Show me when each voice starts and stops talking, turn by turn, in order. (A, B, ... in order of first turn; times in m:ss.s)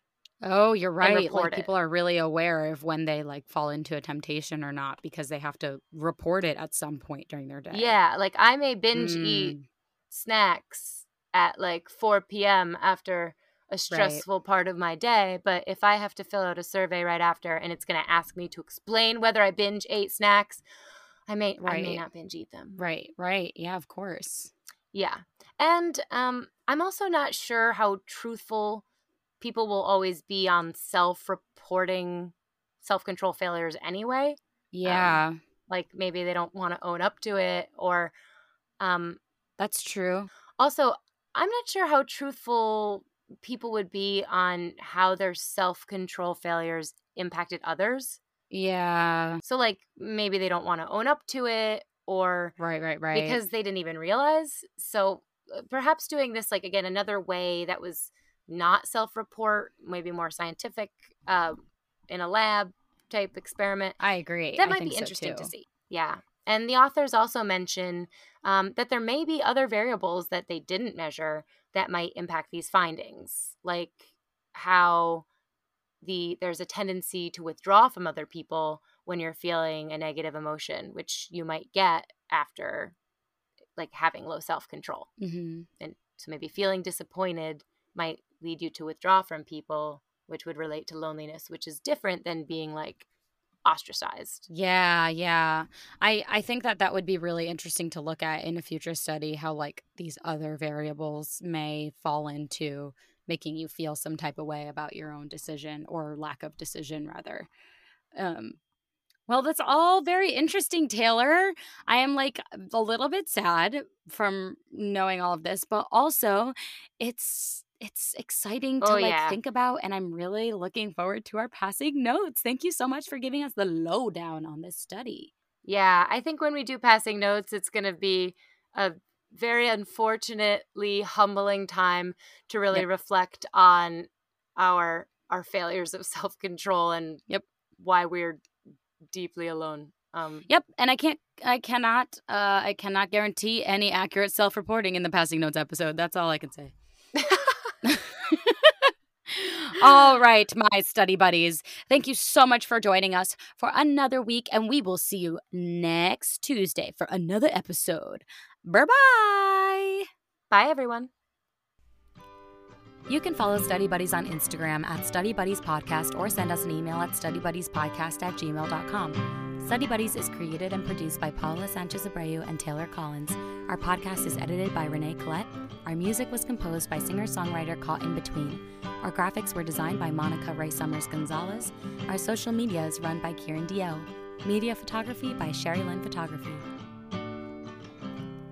0:00.4-0:08.0 A
0:01.0-0:01.7 B
0:07.7-0:09.5 B
0:08.9-0:09.6 A
0:10.1-0:20.6 B
0:13.9-0:14.2 A
0:21.3-0:22.8 B
0:21.6-0:22.0 A
0:22.8-0:24.5 A
0:24.9-0:28.8 B
0:29.4-0:38.1 B
0:34.7-0:35.4 A
0:38.8-0:39.2 B
0:39.6-0:40.3 A
0:40.6-0:48.2 B
0:48.5-0:49.4 A
0:49.4-0:52.6 B
0:52.6-0:53.4 A
0:53.1-1:04.0 B
1:04.0-1:05.5 A
1:04.6-1:15.2 B
1:16.0-1:23.0 B
1:23.8-1:25.1 B
1:25.2-1:25.7 A
1:25.8-1:33.0 B
1:33.6-1:34.4 B
1:34.5-1:47.5 A
1:48.1-1:48.6 A
1:49.3-2:05.3 A
1:58.8-1:59.4 B
2:05.6-2:17.2 B
2:17.8-2:18.4 B
2:19.1-2:20.5 B
2:20.5-2:26.7 A
2:27.2-2:27.7 B
2:27.8-2:40.0 A
2:40.5-2:41.1 B
2:43.1-3:06.7 A